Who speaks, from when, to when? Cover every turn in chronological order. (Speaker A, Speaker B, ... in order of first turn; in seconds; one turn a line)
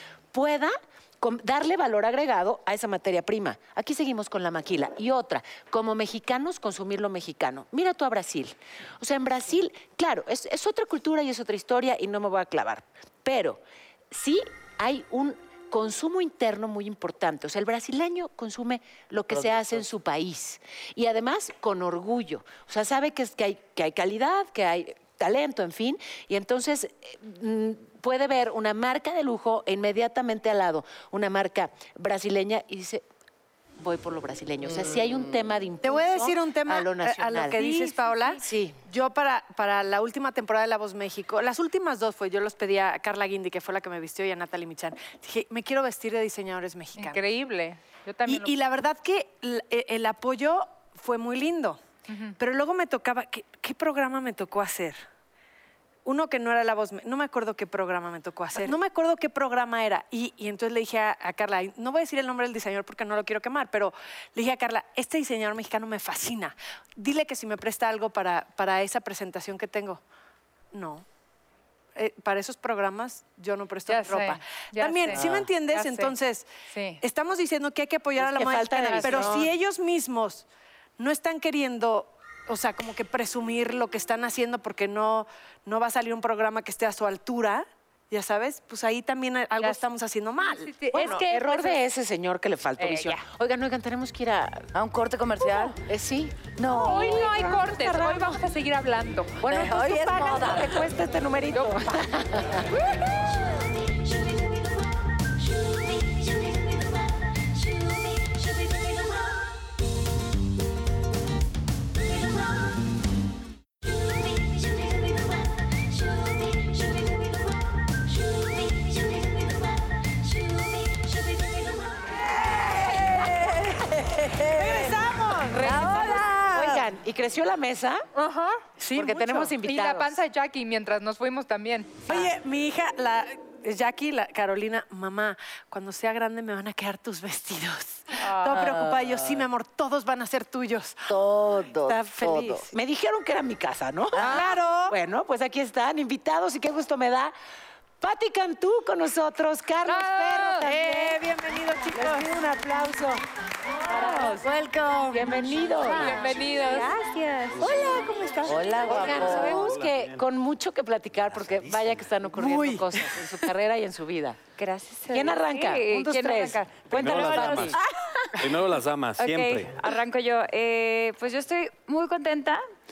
Speaker A: 0.3-33.0
Speaker B: 19.3-19.8
Speaker A: 33.8-38.8
Speaker B: 34.8-35.2
Speaker C: 35.8-47.2
Speaker D: 47.0-48.5
Speaker C: 48.3-51.8
Speaker D: 52.1-52.4
Speaker C: 52.4-55.0
Speaker C: 56.0-70.0
Speaker C: 70.7-71.0
Speaker C: 72.0-76.5
Speaker D: 73.9-76.2
Speaker D: 76.7-77.0
Speaker C: 77.0-80.5
Speaker A: 78.2-79.5
Speaker C: 81.0-91.2
Speaker D: 90.4-91.8
Speaker A: 90.9-94.7
Speaker D: 92.8-93.2
Speaker B: 94.7-95.8
Speaker A: 95.5-98.4
Speaker B: 96.6-97.3
Speaker D: 96.7-99.4
Speaker A: 99.4-102.7
Speaker B: 99.5-100.9
Speaker D: 101.5-102.0
Speaker B: 122.4-126.8
Speaker C: 124.4-126.7
Speaker A: 125.5-128.1
Speaker C: 128.3-129.5
Speaker A: 128.9-130.2
Speaker D: 129.6-132.2
Speaker C: 132.1-141.2
Speaker D: 138.2-138.7
Speaker B: 138.5-139.5
Speaker B: 141.1-142.7
Speaker C: 141.8-142.7
Speaker A: 142.7-147.3
Speaker B: 144.1-144.5
Speaker C: 144.2-145.0
Speaker A: 148.0-151.2
Speaker D: 149.8-150.7
Speaker C: 150.6-152.3
Speaker A: 151.9-153.2
Speaker A: 153.8-154.5
Speaker C: 153.8-156.9
Speaker A: 155.1-156.4
Speaker D: 155.8-157.0
Speaker E: 155.9-157.6
Speaker C: 157.5-159.5
Speaker F: 157.6-157.9
Speaker B: 158.4-159.7
Speaker A: 158.8-164.4
Speaker F: 158.9-160.2
Speaker F: 161.3-162.1
Speaker C: 162.4-162.9
Speaker E: 164.6-167.8
Speaker A: 165.1-167.8
Speaker F: 166.9-167.8
Speaker F: 168.4-169.8
Speaker E: 169.2-172.6